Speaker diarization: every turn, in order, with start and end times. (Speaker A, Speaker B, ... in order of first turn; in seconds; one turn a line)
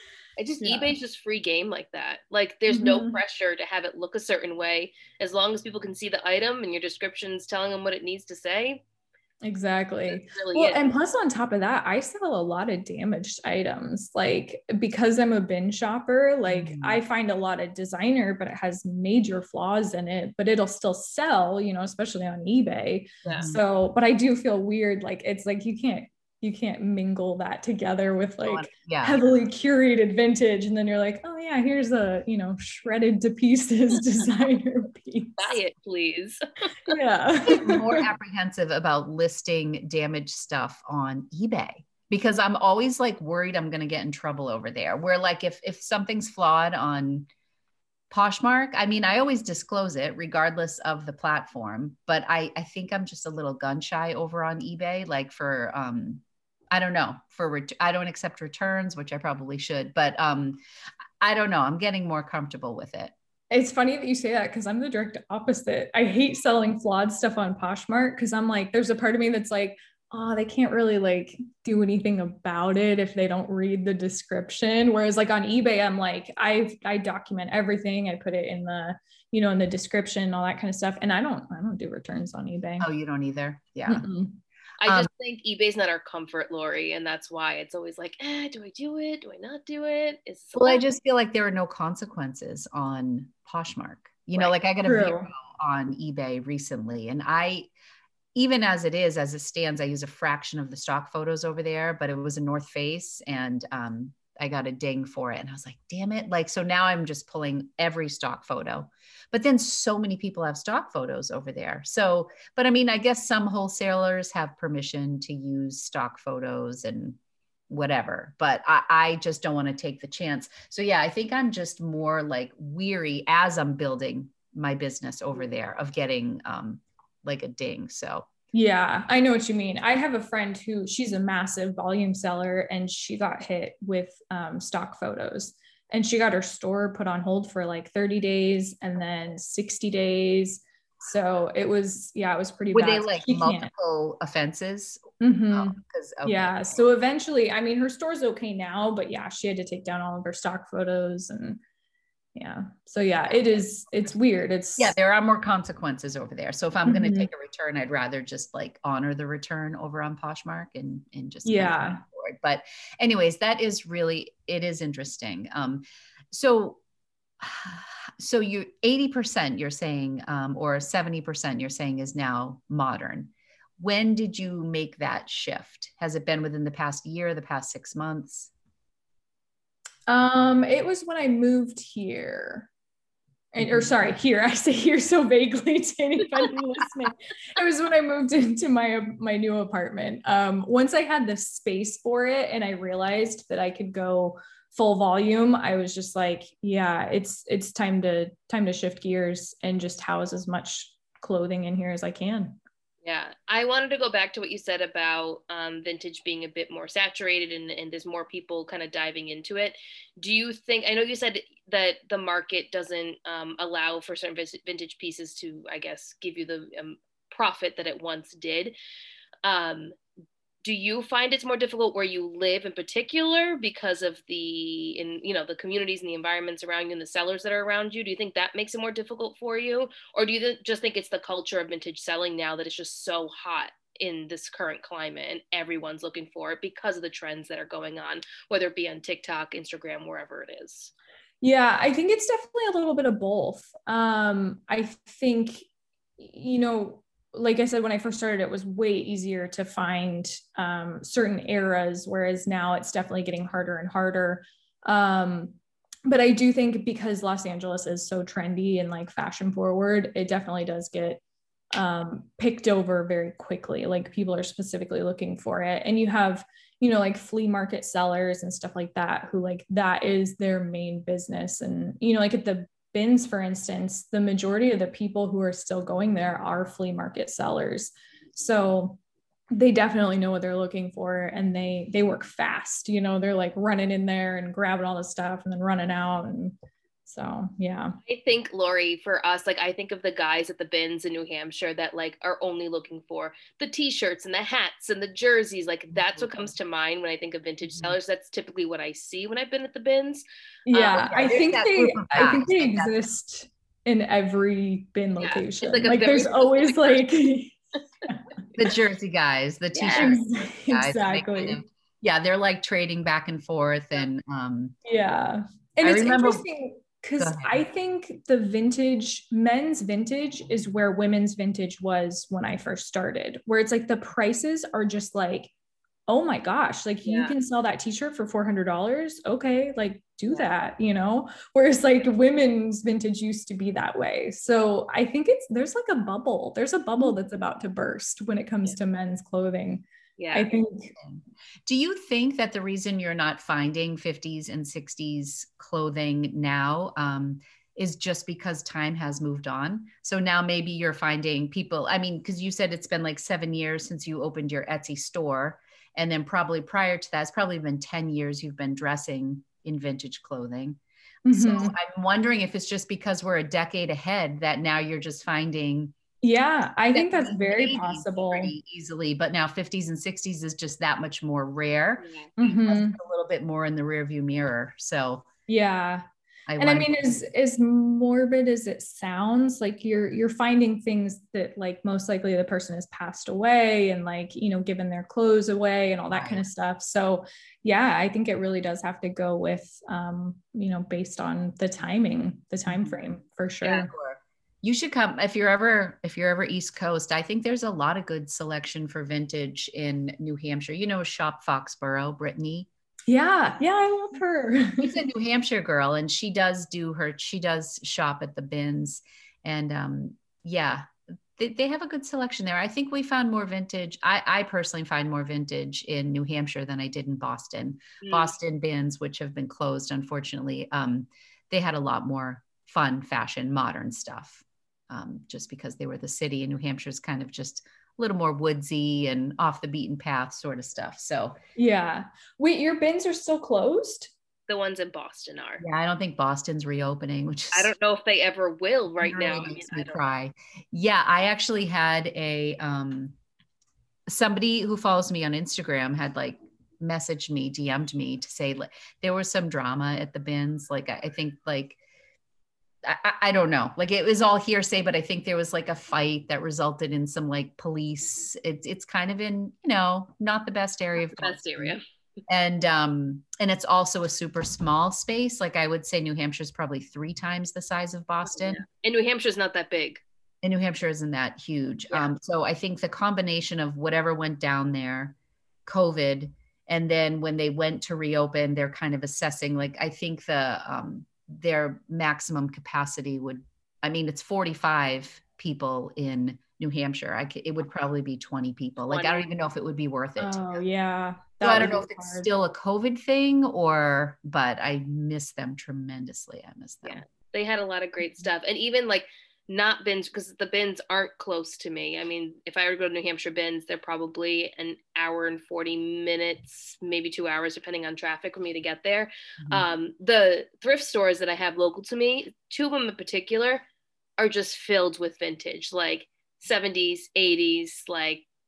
Speaker A: 0.4-8.8
Speaker B: 0.6-0.9
Speaker B: 2.7-3.2
Speaker B: 9.4-35.6
Speaker A: 10.1-10.8
Speaker C: 16.5-17.0
Speaker A: 23.2-23.5
Speaker C: 23.3-23.6
Speaker C: 28.4-29.2
Speaker A: 35.4-36.9
Speaker B: 36.9-38.0
Speaker C: 37.4-47.3
Speaker C: 48.1-60.6
Speaker C: 61.2-63.1
Speaker B: 63.5-82.9
Speaker C: 82.8-84.0
Speaker B: 83.9-84.4
Speaker A: 84.8-91.0
Speaker C: 84.8-85.1
Speaker C: 90.5-97.7
Speaker B: 94.8-95.3
Speaker C: 98.3-117.2
Speaker C: 117.7-128.3
Speaker B: 128.5-143.7
Speaker C: 142.7-146.8
Speaker B: 145.2-151.6
Speaker B: 152.3-154.9
Speaker C: 154.8-166.8
Speaker B: 156.8-157.3
Speaker B: 161.4-162.0
Speaker C: 167.4-178.5
Speaker B: 180.1-182.7
Speaker B: 183.5-202.6
Speaker C: 183.6-183.9
Speaker A: 203.0-218.7
Speaker A: 219.4-219.9
Speaker A: 220.6-240.9
Speaker B: 241.4-245.7
Speaker B: 246.2-261.2
Speaker B: 261.7-279.0
Speaker B: 279.5-287.9
Speaker A: 288.1-301.1
Speaker B: 300.7-308.2
Speaker C: 300.9-303.0
Speaker A: 305.2-307.1
Speaker C: 308.5-314.8
Speaker A: 309.7-310.2
Speaker B: 309.9-311.6
Speaker B: 314.8-325.5
Speaker C: 315.8-316.5
Speaker C: 317.2-317.6
Speaker B: 326.1-340.9
Speaker A: 327.0-327.3
Speaker A: 340.2-340.5
Speaker C: 341.0-365.9
Speaker B: 361.2-361.7
Speaker B: 366.2-368.5
Speaker C: 366.9-375.3
Speaker A: 372.0-372.3
Speaker B: 372.4-373.0
Speaker B: 375.5-376.0
Speaker C: 376.5-377.2
Speaker B: 376.6-393.9
Speaker C: 386.1-386.4
Speaker C: 392.6-393.0
Speaker C: 393.8-402.7
Speaker B: 403.1-405.0
Speaker C: 404.8-431.4
Speaker A: 418.0-418.3
Speaker B: 431.6-434.1
Speaker A: 434.5-435.6
Speaker C: 435.6-437.7
Speaker A: 437.5-440.0
Speaker C: 439.0-443.1
Speaker C: 444.1-451.8
Speaker C: 452.8-461.8
Speaker A: 461.0-461.8
Speaker C: 462.3-468.6
Speaker A: 468.3-470.0
Speaker C: 470.4-490.6
Speaker A: 488.9-489.3
Speaker B: 490.2-492.3
Speaker C: 491.4-497.0
Speaker A: 496.8-513.6
Speaker C: 509.4-509.7
Speaker A: 514.2-518.2